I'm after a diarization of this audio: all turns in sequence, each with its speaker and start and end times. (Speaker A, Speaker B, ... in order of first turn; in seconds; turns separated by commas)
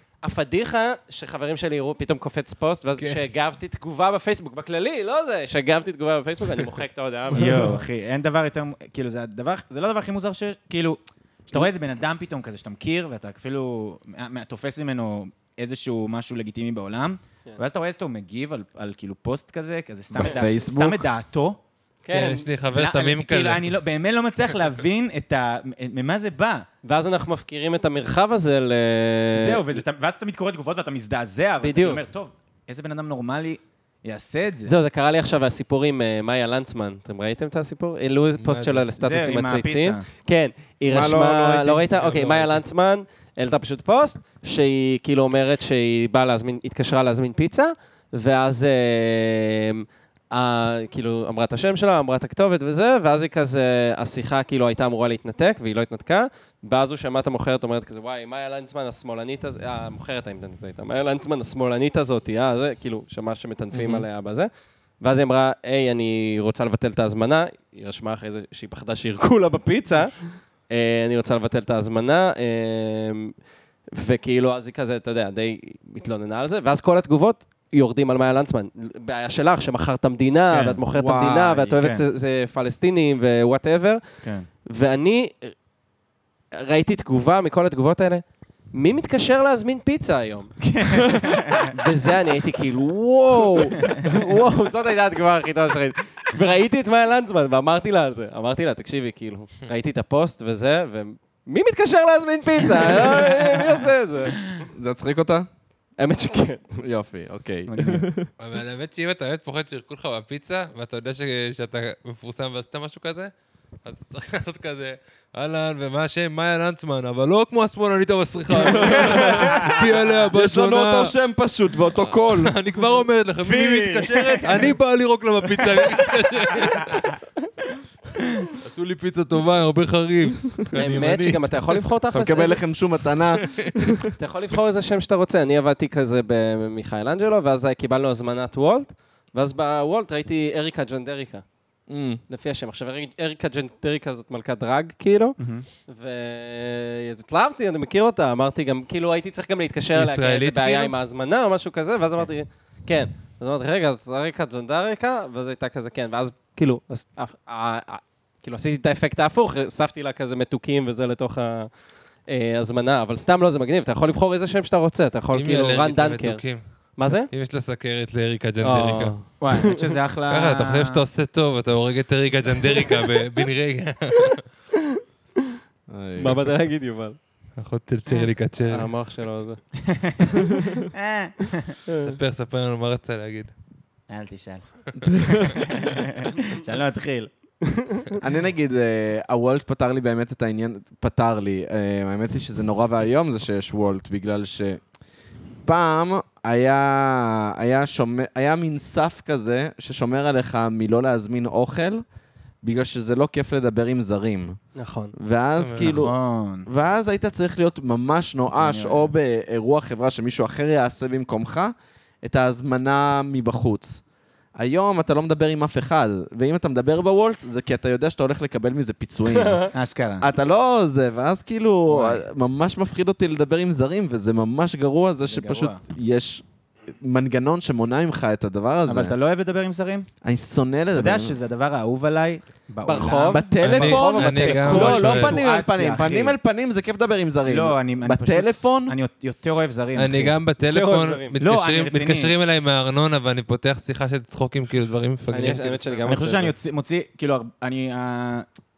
Speaker A: 0.2-7.8, Speaker B: 7.3-21.6, Speaker C: 20.1-21.1, Speaker A: 22.0-22.5, Speaker D: 22.1-23.7, Speaker B: 22.7-26.6, Speaker A: 26.8-29.8, Speaker B: 29.3-34.7, Speaker A: 31.6-32.0, Speaker A: 34.6-64.5, Speaker D: 38.4-38.9, Speaker B: 39.0-40.0, Speaker C: 40.9-41.9, Speaker D: 41.9-42.6, Speaker C: 63.7-64.0, Speaker A: 65.0-73.3, Speaker A: 73.9-84.0, Speaker B: 80.5-80.8, Speaker C: 80.9-81.8, Speaker B: 81.8-82.0, Speaker A: 84.7-85.5, Speaker A: 86.5-90.5, Speaker B: 90.6-91.8, Speaker A: 91.6-104.4, Speaker B: 93.8-94.1, Speaker B: 102.9-103.8, Speaker C: 104.5-105.5, Speaker A: 106.0-106.8, Speaker C: 106.8-108.3, Speaker B: 107.7-108.1, Speaker D: 108.4-113.3, Speaker D: 113.8-121.1, Speaker C: 118.6-122.5, Speaker B: 118.7-120.0, Speaker D: 121.9-127.1, Speaker B: 123.4-124.7, Speaker B: 125.6-127.0, Speaker D: 128.6-131.8, Speaker A: 130.7-132.6, Speaker C: 132.1-134.1, Speaker D: 133.4-133.8, Speaker A: 134.2-141.4, Speaker C: 141.9-142.2, Speaker A: 142.3-145.4, Speaker B: 145.4-145.7, Speaker A: 145.9-161.7, Speaker D: 149.9-150.9, Speaker A: 162.3-166.4, Speaker D: 165.3-166.6, Speaker A: 166.9-167.3, Speaker D: 167.3-169.1, Speaker A: 168.6-169.8, Speaker B: 169.4-171.0, Speaker D: 170.3-174.4, Speaker C: 175.9-176.5, Speaker A: 176.2-177.2, Speaker D: 177.6-178.9, Speaker A: 178.6-179.6, Speaker B: 179.8-181.8, Speaker A: 181.9-182.2, Speaker D: 182.0-183.5, Speaker B: 184.1-187.3, Speaker A: 187.7-188.1, Speaker C: 188.2-194.8, Speaker C: 195.6-202.0, Speaker C: 202.6-204.6, Speaker A: 204.8-205.1, Speaker C: 205.2-206.1, Speaker D: 205.6-206.0, Speaker B: 205.8-206.7, Speaker C: 206.7-211.7, Speaker B: 208.6-209.1, Speaker C: 212.2-214.0, Speaker C: 214.6-219.7, Speaker A: 219.3-219.7, Speaker B: 219.7-220.3, Speaker C: 220.2-229.1, Speaker B: 221.9-222.2, Speaker B: 225.2-225.8, Speaker B: 228.8-230.1, Speaker C: 230.2-231.3, Speaker B: 230.9-236.4, Speaker A: 232.8-235.0, Speaker C: 233.3-238.9, Speaker D: 233.6-235.4, Speaker B: 237.4-240.3, Speaker D: 239.9-246.2, Speaker A: 240.6-241.4, Speaker B: 241.4-242.3, Speaker A: 245.3-246.5, Speaker B: 246.0-248.5